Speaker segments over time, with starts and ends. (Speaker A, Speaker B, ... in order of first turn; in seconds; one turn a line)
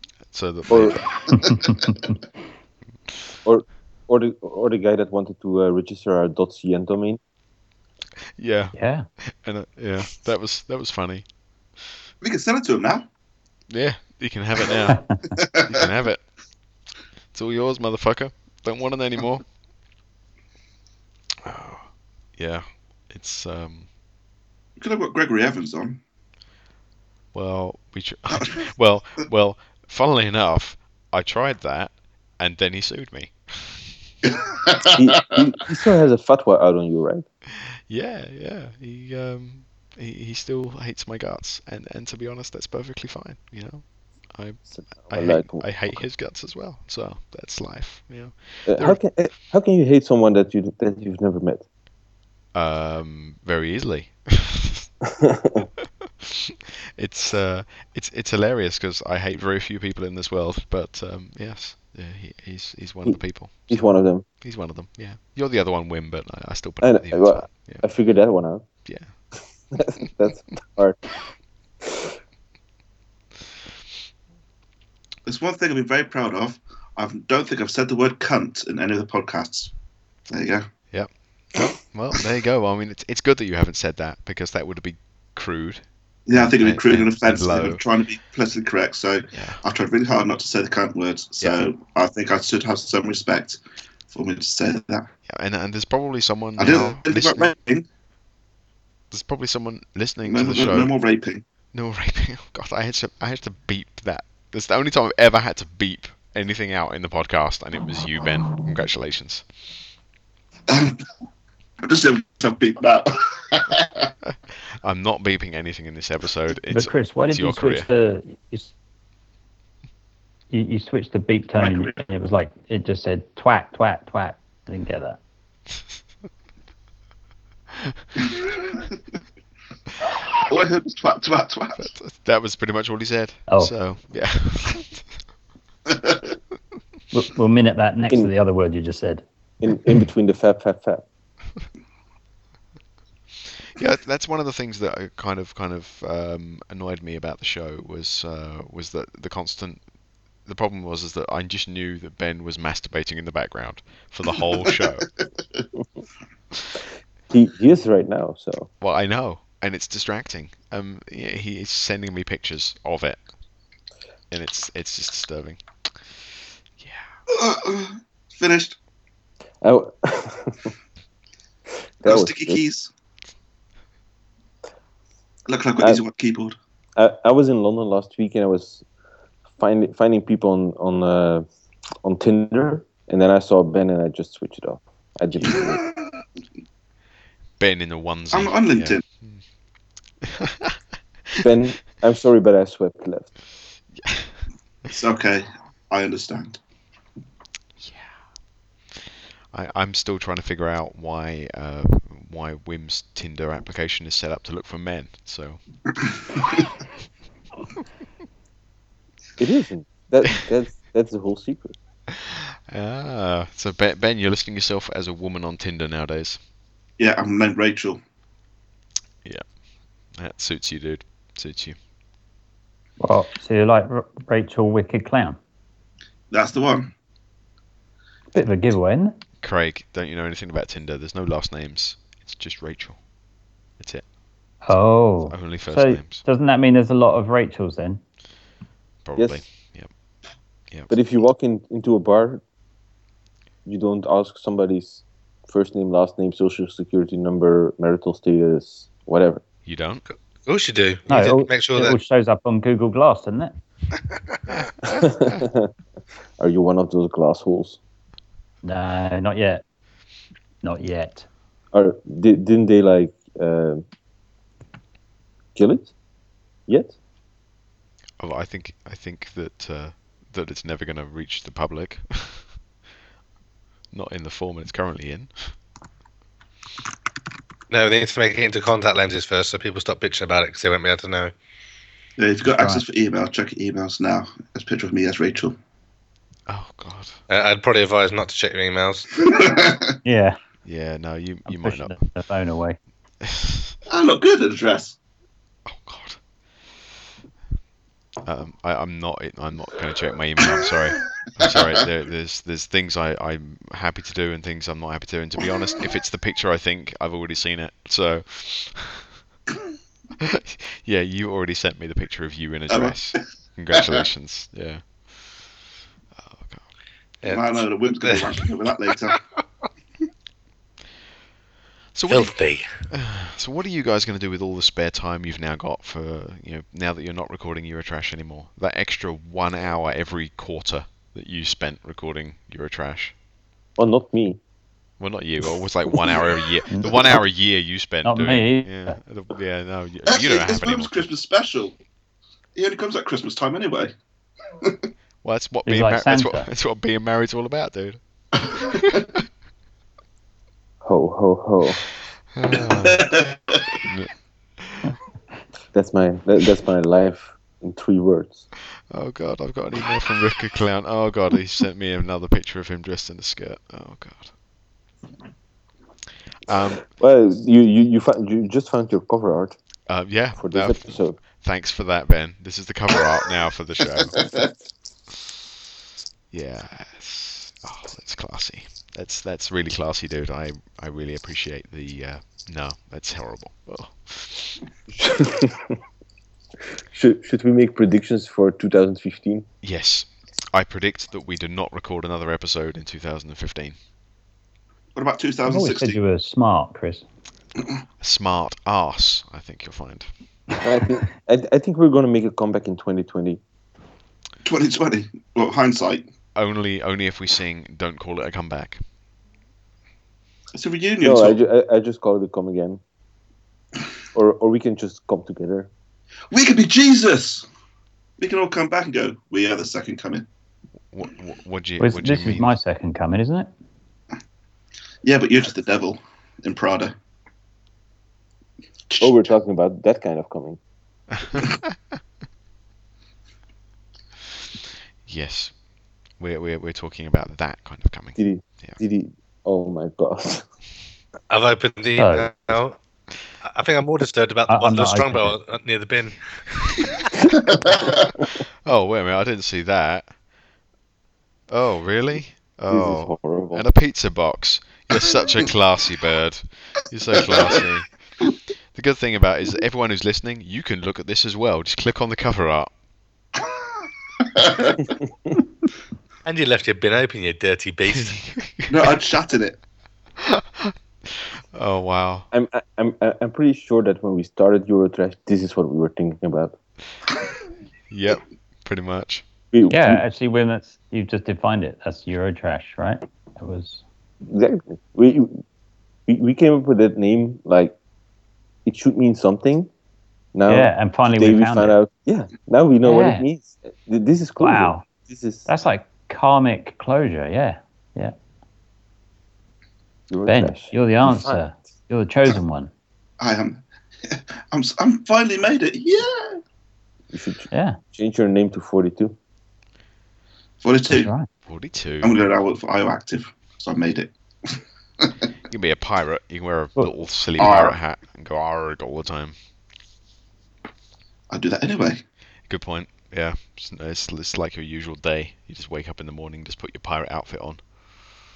Speaker A: 0.3-1.2
Speaker B: 0.7-1.1
Speaker C: 1.3-1.9
Speaker D: 1.3-2.0
Speaker B: 3.5-7.2
Speaker A: 8.4-11.2
Speaker D: 8.8-9.1
Speaker C: 12.2-13.1
Speaker A: 13.7-15.0
Speaker C: 15.3-15.9
Speaker A: 15.6-16.2
Speaker A: 17.3-19.4
Speaker A: 21.4-23.9
Speaker C: 24.8-26.0
Speaker A: 27.3-33.9
Speaker C: 28.4-28.6
Speaker C: 34.2-35.4
Speaker B: 35.0-37.2
Speaker A: 37.9-49.0
Speaker B: 44.7-46.0
Speaker B: 48.7-51.6
Speaker A: 52.5-54.9
Speaker B: 55.2-55.7
Speaker A: 56.0-67.8
Speaker B: 63.1-64.3
Speaker B: 66.8-68.7
Speaker A: 68.8-69.1
Speaker B: 69.7-71.0
Speaker C: 75.3-79.7
Speaker C: 80.3-80.7
Speaker A: 80.9-87.8
Speaker C: 86.3-95.1
Speaker A: 89.3-89.6
Speaker A: 95.3-97.5
Speaker C: 96.6-97.9
Speaker A: 99.1-100.9
Speaker C: 100.3-101.5
Speaker A: 101.7-109.5
Speaker C: 110.7-111.0
Speaker C: 111.8-114.1
Speaker A: 114.2-117.9
Speaker D: 116.7-118.7
Speaker D: 120.5-125.2
Speaker C: 121.6-122.0
Speaker C: 128.2-128.9
Speaker C: 130.2-131.9
Speaker A: 131.8-135.1
Speaker D: 133.5-133.7
Speaker C: 135.9-136.2
Speaker D: 137.1-139.2
Speaker B: 139.6-141.0
Speaker A: 143.7-149.8
Speaker A: 150.5-155.1
Speaker B: 157.3-158.7
Speaker A: 158.8-163.2
Speaker A: 164.3-167.1
Speaker C: 167.3-168.8
Speaker B: 169.6-170.7
Speaker B: 172.0-172.6
Speaker C: 172.1-172.9
Speaker C: 175.5-176.6
Speaker B: 177.0-178.8
Speaker B: 179.6-181.4
Speaker B: 182.0-185.8
Speaker C: 185.6-186.0
Speaker A: 187.6-189.4
Speaker C: 188.3-189.0
Speaker A: 190.2-190.8
Speaker B: 191.4-193.3
Speaker A: 194.0-194.3
Speaker C: 194.9-196.6
Speaker A: 197.8-198.1
Speaker A: 199.5-205.6
Speaker C: 206.0-206.7
Speaker B: 209.4-211.8
Speaker A: 212.1-216.4
Speaker C: 217.0-218.0
Speaker A: 220.2-221.8
Speaker D: 223.0-225.4
Speaker C: 226.3-226.9
Speaker D: 228.3-229.2
Speaker A: 229.4-233.0
Speaker A: 233.8-234.1
Speaker D: 234.7-238.0
Speaker A: 235.3-236.2
Speaker A: 239.1-239.9
Speaker B: 239.2-239.4
Speaker B: 240.9-242.4
Speaker B: 243.7-249.4
Speaker A: 249.7-250.0
Speaker E: 250.5-252.0
Speaker D: 251.1-253.5
Speaker B: 254.9-255.7
Speaker B: 256.4-257.8
Speaker D: 258.6-259.6
Speaker D: 260.6-261.3
Speaker B: 261.7-263.8
Speaker B: 265.6-265.9
Speaker B: 266.7-266.9
Speaker A: 268.2-272.5
Speaker A: 273.9-275.5
Speaker E: 277.7-281.3
Speaker C: 282.2-285.6
Speaker D: 282.5-282.8
Speaker A: 286.5-287.1
Speaker E: 287.3-289.1
Speaker C: 289.1-290.0
Speaker D: 290.0-290.4
Speaker A: 290.6-292.0
Speaker D: 291.5-292.8
Speaker A: 293.2-293.7
Speaker C: 293.9-295.0
Speaker A: 295.7-296.2
Speaker A: 298.2-309.1
Speaker A: 310.2-315.3
Speaker C: 312.7-314.0
Speaker A: 316.1-316.6
Speaker E: 317.2-318.5
Speaker C: 317.2-319.2
Speaker A: 321.9-322.3
Speaker E: 322.1-322.8
Speaker A: 322.9-333.1
Speaker B: 333.8-334.4
Speaker A: 335.0-341.1
Speaker D: 338.0-339.0
Speaker C: 340.1-341.8
Speaker C: 342.6-343.9
Speaker A: 345.2-349.2
Speaker D: 345.7-346.5
Speaker B: 350.8-351.8
Speaker A: 352.4-353.2
Speaker C: 352.6-353.8
Speaker A: 353.8-354.9
Speaker B: 355.7-358.5
Speaker A: 358.9-364.3
Speaker A: 366.5-366.8
Speaker B: 366.9-369.6
Speaker A: 369.9-374.2
Speaker B: 370.4-371.2
Speaker C: 374.2-374.4
Speaker A: 376.3-384.6
Speaker B: 385.0-385.8
Speaker B: 386.9-389.5
Speaker A: 389.6-393.8
Speaker C: 394.9-396.0
Speaker D: 395.5-397.1
Speaker A: 398.0-400.1
Speaker B: 400.6-403.4
Speaker C: 404.4-406.0
Speaker A: 406.4-408.8
Speaker C: 410.6-411.4
Speaker B: 411.0-412.8
Speaker B: 414.1-415.7
Speaker C: 416.3-417.5
Speaker C: 418.2-420.3
Speaker A: 420.9-422.5
Speaker D: 421.8-423.5
Speaker C: 425.0-426.9
Speaker C: 428.9-429.3
Speaker B: 429.0-430.6
Speaker A: 431.2-431.7
Speaker A: 435.1-435.6
Speaker A: 436.2-438.8
Speaker B: 438.2-440.4
Speaker E: 441.3-442.8
Speaker D: 442.0-442.3
Speaker E: 443.4-446.8
Speaker D: 444.5-445.4
Speaker C: 447.5-448.0
Speaker A: 448.3-450.1
Speaker A: 451.5-457.9
Speaker B: 452.7-453.6
Speaker C: 457.2-457.6
Speaker A: 458.7-462.7
Speaker C: 464.2-464.9
Speaker E: 466.2-468.2
Speaker A: 467.9-469.0
Speaker C: 468.7-469.6
Speaker A: 470.2-472.3
Speaker B: 472.3-476.6
Speaker A: 477.9-479.2
Speaker B: 479.5-480.0
Speaker D: 479.7-483.8
Speaker B: 484.3-485.4
Speaker B: 486.1-487.8
Speaker B: 488.7-489.7
Speaker B: 490.4-495.5
Speaker D: 490.5-491.8
Speaker D: 492.8-493.3
Speaker D: 494.4-494.9
Speaker D: 495.5-498.1
Speaker B: 500.1-501.4
Speaker D: 500.3-502.7
Speaker C: 503.2-506.4
Speaker B: 507.1-509.1
Speaker D: 507.5-507.8
Speaker C: 510.6-511.1
Speaker D: 510.9-511.3
Speaker A: 511.5-512.1
Speaker C: 512.0-514.1
Speaker A: 515.5-519.4
Speaker C: 517.4-517.8
Speaker C: 521.3-522.0
Speaker A: 522.5-527.6